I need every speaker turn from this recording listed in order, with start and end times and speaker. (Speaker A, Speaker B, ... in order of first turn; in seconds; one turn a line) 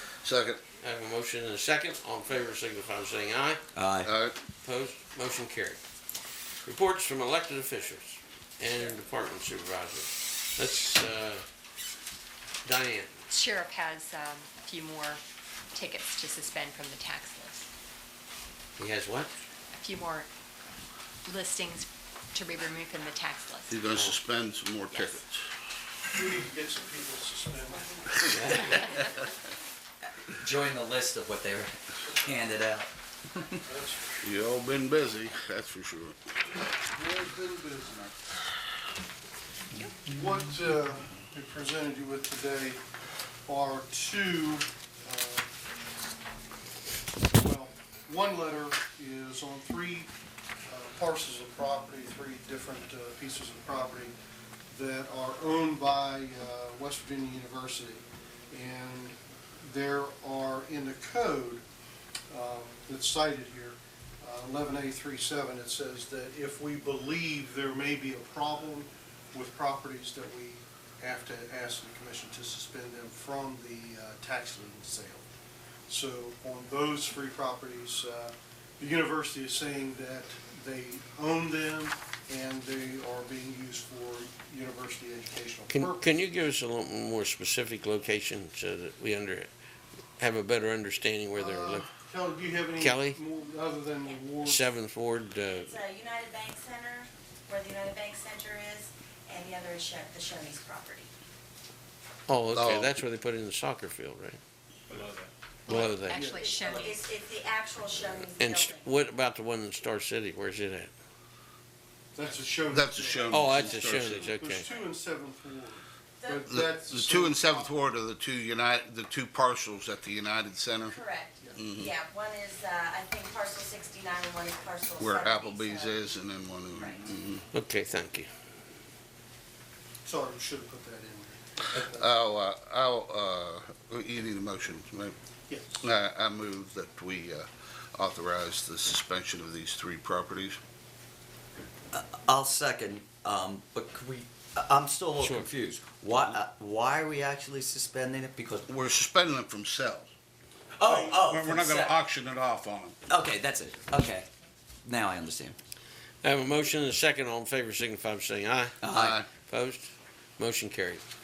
Speaker A: 0.2-0.6
Speaker B: 0.8-3.6
Speaker C: 3.7-4.1
Speaker A: 4.0-4.4
Speaker B: 4.6-5.8
Speaker B: 6.7-11.4
Speaker B: 12.7-13.1
Speaker D: 13.3-15.2
Speaker D: 15.7-17.7
Speaker B: 18.8-19.3
Speaker D: 19.8-20.3
Speaker D: 21.2-23.8
Speaker A: 23.7-25.4
Speaker D: 24.9-25.2
Speaker E: 26.1-28.3
Speaker B: 28.2-28.7
Speaker C: 30.2-33.6
Speaker E: 33.6-34.2
Speaker A: 34.2-36.2
Speaker E: 36.9-38.2
Speaker E: 40.0-42.8
Speaker E: 43.5-45.5
Speaker E: 47.2-50.1
Speaker E: 50.7-54.1
Speaker E: 54.7-61.6
Speaker E: 62.3-75.3
Speaker E: 75.9-86.2
Speaker B: 85.7-89.5
Speaker B: 90.2-91.9
Speaker E: 91.3-94.7
Speaker B: 92.8-93.2
Speaker B: 94.4-95.8
Speaker F: 95.6-101.1
Speaker B: 102.3-104.4
Speaker A: 102.5-102.9
Speaker D: 105.7-107.0
Speaker B: 105.7-106.2
Speaker E: 105.7-106.9
Speaker F: 106.3-108.9
Speaker B: 108.4-110.9
Speaker E: 112.1-117.8
Speaker A: 112.7-114.4
Speaker B: 113.3-114.7
Speaker F: 114.6-114.9
Speaker F: 116.2-116.6
Speaker A: 116.5-121.0
Speaker F: 120.9-126.0
Speaker E: 121.4-121.7
Speaker A: 121.6-121.9
Speaker A: 125.0-127.4
Speaker F: 126.7-127.0
Speaker B: 127.5-128.3
Speaker E: 130.0-132.2
Speaker A: 131.8-135.2
Speaker E: 135.5-135.8
Speaker A: 135.8-140.6
Speaker C: 141.9-148.7
Speaker B: 145.2-145.5
Speaker A: 148.7-150.1
Speaker C: 150.8-151.9
Speaker A: 150.9-153.0
Speaker C: 153.1-154.3
Speaker C: 154.8-155.6
Speaker B: 156.2-158.8
Speaker C: 158.8-159.2
Speaker A: 158.9-159.3
Speaker B: 159.4-161.0